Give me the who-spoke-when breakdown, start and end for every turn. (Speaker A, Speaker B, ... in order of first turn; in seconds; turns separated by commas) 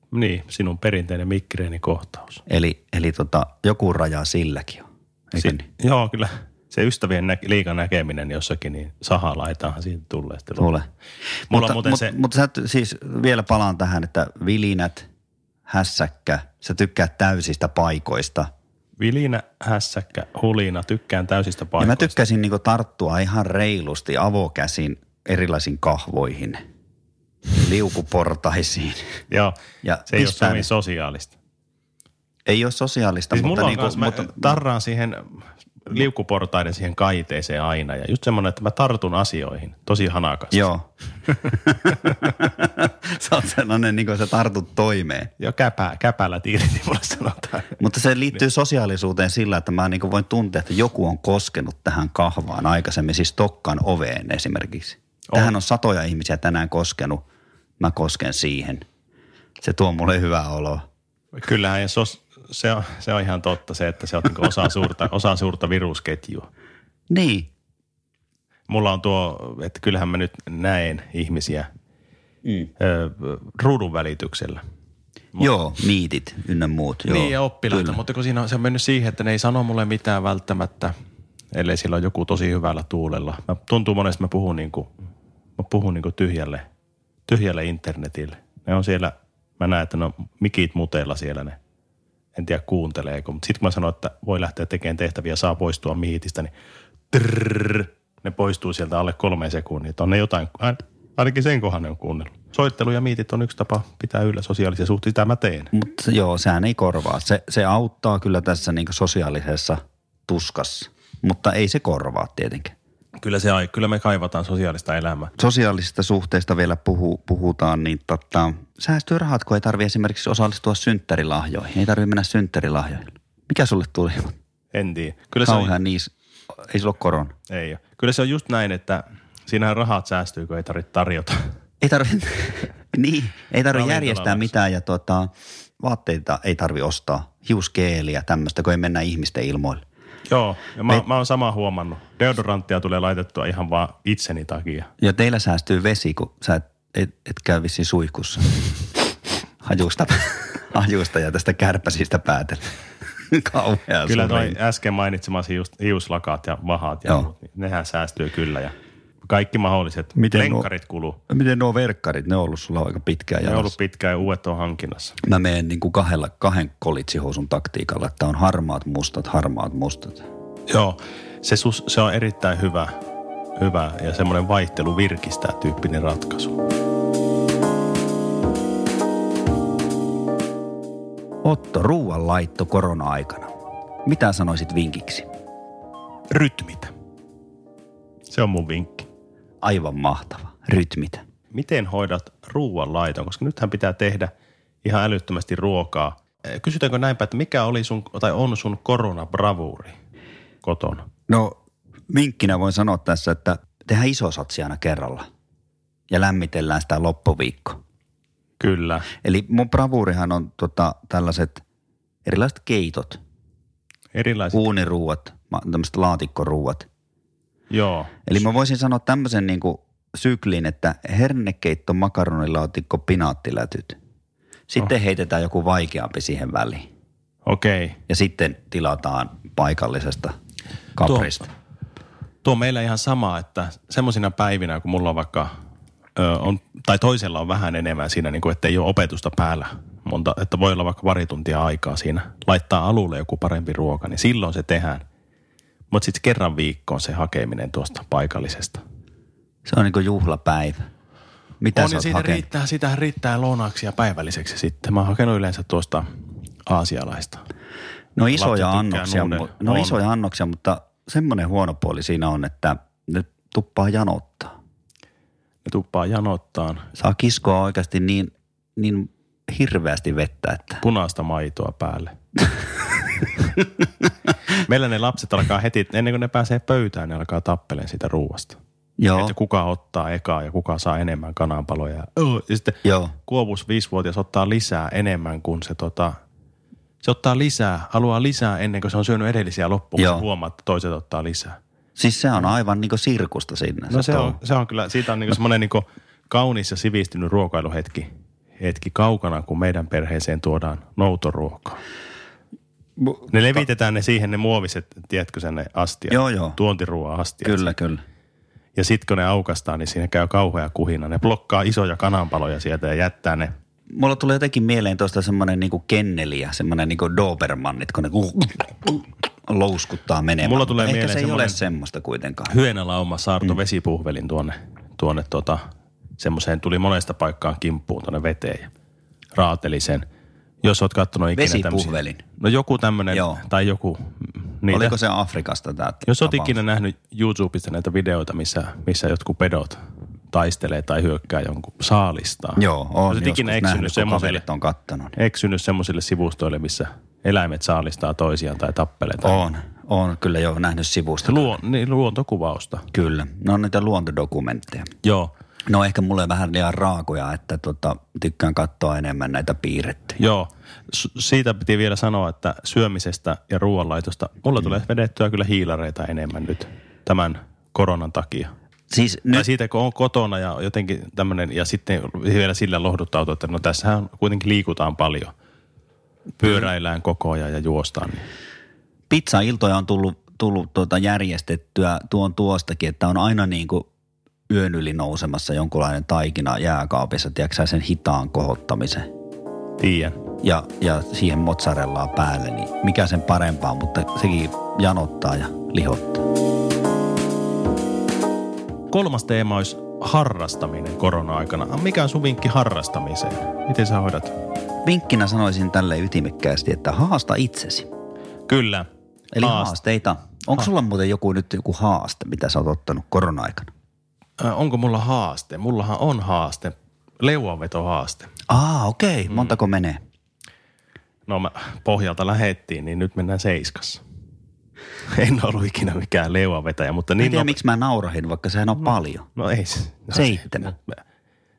Speaker A: 0.1-2.4, Speaker B: 2.5-5.6, Speaker A: 5.3-10.7, Speaker B: 10.6-10.9, Speaker A: 11.5-12.1, Speaker B: 11.5-15.1, Speaker B: 15.7-18.5, Speaker A: 19.0-22.1, Speaker B: 21.8-26.6, Speaker B: 27.6-29.2, Speaker A: 29.3-31.3, Speaker B: 29.8-30.7, Speaker B: 32.5-34.6, Speaker A: 33.3-40.7, Speaker B: 40.5-45.3, Speaker A: 45.4-47.8, Speaker B: 47.8-57.2, Speaker B: 57.8-58.9, Speaker B: 59.6-60.9, Speaker A: 61.3-66.5, Speaker B: 67.1-67.5, Speaker A: 68.7-71.7, Speaker A: 72.8-74.6, Speaker B: 75.4-78.0, Speaker A: 77.1-80.9, Speaker A: 81.5-84.9, Speaker A: 85.6-86.6, Speaker A: 87.3-91.6, Speaker A: 92.3-96.5, Speaker A: 97.1-105.7, Speaker B: 105.7-112.7, Speaker A: 113.2-115.3, Speaker B: 115.4-124.3, Speaker A: 124.7-125.8, Speaker B: 125.4-127.3, Speaker A: 127.5-131.5, Speaker B: 131.8-139.8, Speaker A: 133.7-134.5, Speaker A: 140.3-144.9, Speaker B: 145.0-149.1, Speaker B: 149.6-154.6, Speaker A: 154.1-161.2, Speaker B: 160.2-160.7, Speaker B: 161.3-163.7, Speaker A: 163.4-165.2, Speaker B: 165.2-170.2, Speaker A: 170.7-172.9, Speaker A: 173.6-176.6, Speaker B: 181.4-183.5, Speaker B: 184.1-185.3, Speaker A: 186.3-186.9, Speaker A: 188.3-189.1, Speaker B: 189.6-191.2, Speaker A: 191.5-194.3, Speaker A: 194.8-199.9, Speaker A: 200.6-201.1, Speaker B: 201.3-201.6, Speaker B: 202.1-205.3, Speaker B: 206.1-207.8, Speaker A: 208.6-209.1, Speaker B: 209.1-211.6, Speaker B: 212.2-213.2, Speaker A: 214.1-214.6, Speaker B: 214.5-216.9, Speaker A: 217.7-218.2, Speaker B: 218.2-224.0, Speaker B: 224.7-226.9, Speaker A: 227.4-228.0, Speaker B: 228.1-230.3, Speaker B: 230.9-231.5, Speaker A: 231.0-231.4, Speaker A: 232.4-235.5, Speaker A: 236.2-245.0, Speaker A: 245.9-248.8, Speaker B: 249.7-250.9, Speaker B: 251.6-252.4, Speaker A: 251.7-256.1, Speaker A: 256.6-257.4, Speaker B: 258.1-264.5, Speaker A: 258.3-260.0, Speaker A: 265.6-266.9, Speaker B: 266.9-270.8, Speaker A: 270.8-272.1, Speaker A: 274.6-278.6, Speaker B: 279.0-279.3, Speaker A: 279.1-286.2, Speaker B: 282.8-283.1, Speaker A: 287.0-291.6, Speaker B: 290.0-290.2, Speaker B: 292.0-294.4, Speaker A: 293.9-298.1, Speaker A: 298.6-301.8, Speaker B: 303.0-303.6, Speaker A: 303.3-307.7, Speaker B: 306.1-306.6, Speaker B: 307.4-308.0, Speaker A: 308.8-313.5, Speaker B: 313.9-322.5, Speaker A: 320.4-321.6, Speaker A: 322.5-325.6, Speaker A: 326.2-328.7, Speaker A: 329.3-330.0, Speaker A: 330.6-335.0, Speaker B: 331.3-332.2, Speaker B: 333.1-333.4, Speaker B: 334.7-336.6, Speaker A: 336.1-344.4, Speaker B: 342.6-345.1, Speaker A: 345.1-349.4, Speaker B: 349.2-351.6, Speaker A: 351.2-352.9, Speaker B: 352.9-354.9, Speaker A: 355.0-355.3, Speaker B: 355.6-360.2, Speaker A: 360.2-368.5, Speaker B: 368.9-369.5, Speaker A: 369.3-375.3, Speaker A: 376.4-378.2, Speaker B: 379.1-383.9, Speaker B: 384.5-389.1, Speaker A: 389.8-390.2, Speaker B: 390.4-396.2, Speaker A: 398.9-404.3, Speaker B: 404.8-407.9, Speaker A: 408.5-408.9, Speaker B: 409.3-413.7, Speaker A: 409.4-409.7, Speaker A: 414.4-418.3, Speaker B: 418.5-420.0, Speaker A: 421.3-424.0, Speaker A: 425.1-427.5, Speaker B: 427.2-429.3, Speaker A: 429.3-431.0, Speaker B: 430.1-430.7